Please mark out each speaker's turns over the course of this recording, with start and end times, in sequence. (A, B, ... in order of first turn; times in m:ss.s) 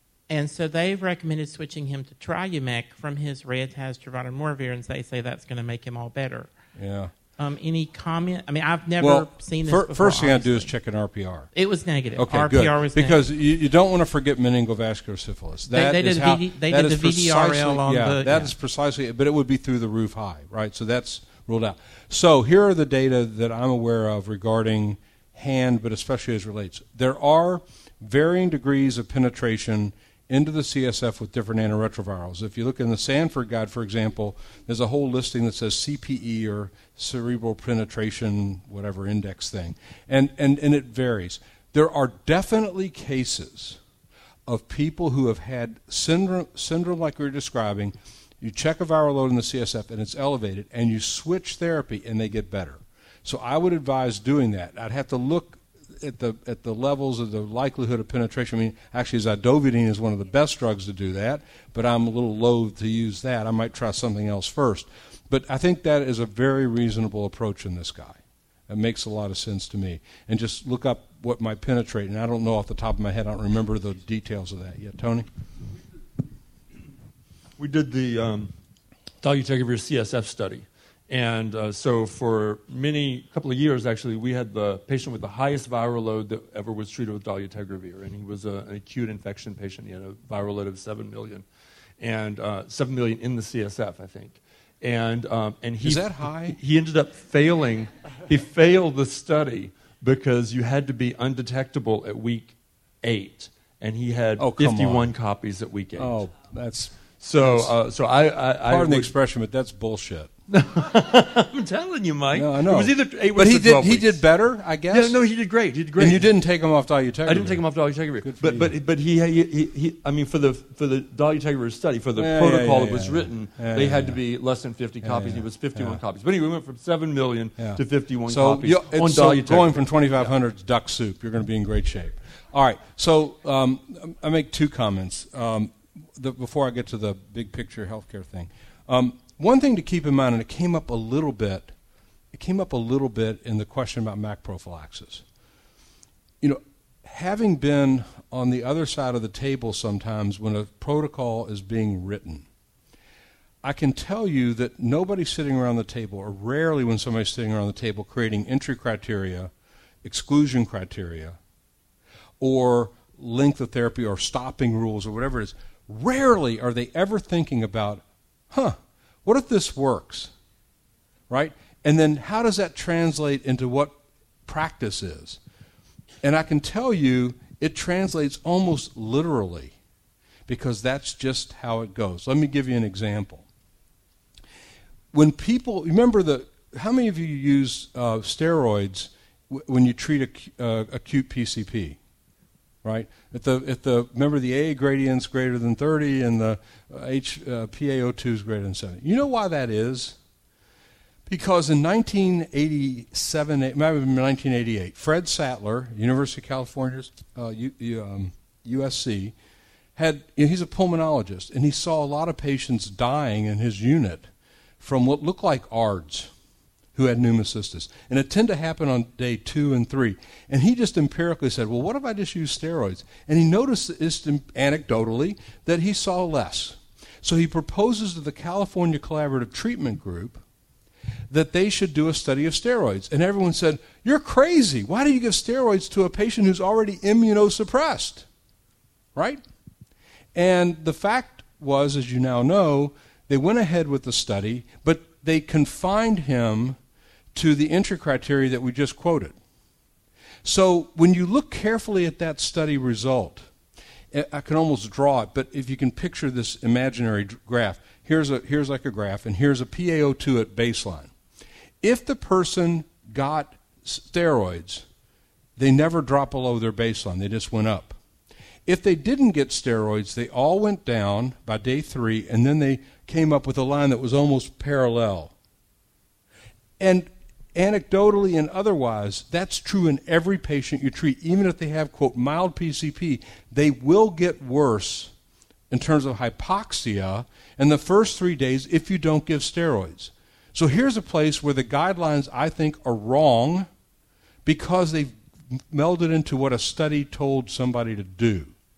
0:00.3-0:06.5 A
0:06.8-0:07.1 B
0:07.4-0:10.7 A
0:09.0-0:11.5 B
0:11.5-0:13.2 A
0:12.2-0:43.8 B
0:15.7-0:18.5 A
0:44.5-1:15.3 B
1:17.6-1:18.5 C
1:19.2-1:31.4 C
1:32.0-1:46.2 C
1:35.8-1:36.6 B
1:44.4-1:45.1 B
1:46.0-1:47.7 B
1:47.2-1:49.1 C
1:48.6-1:50.3 B
1:50.5-1:54.3 C
1:52.3-1:55.2 B
1:54.9-1:56.4 C
1:56.0-1:57.6 B
1:57.3-2:10.3 C
1:58.2-1:58.7 B
2:02.2-2:04.2 B
2:05.0-2:06.0 B
2:07.6-2:21.7 B
2:22.3-2:25.2 B
2:26.4-2:32.5 B
2:33.6-2:39.5 B
2:40.0-2:41.4 B
2:42.4-2:50.3 B
2:51.3-2:55.4 B
2:56.2-2:59.8 B
3:00.5-3:03.5 B
3:05.1-3:12.0 B
3:12.8-3:20.2 B
3:21.3-3:29.4 B
3:30.0-3:34.3 B
3:34.8-3:36.3 B
3:37.0-3:50.4 B
3:51.3-3:58.3 B
3:59.2-3:59.4 B
4:00.4-4:06.8 B
4:07.3-4:09.4 B
4:10.4-4:13.5 B
4:14.1-4:21.1 B
4:21.8-4:24.9 B
4:25.6-4:28.0 B
4:28.7-4:35.3 B
4:36.8-4:45.1 B
4:45.7-4:53.7 B
4:54.4-4:58.5 B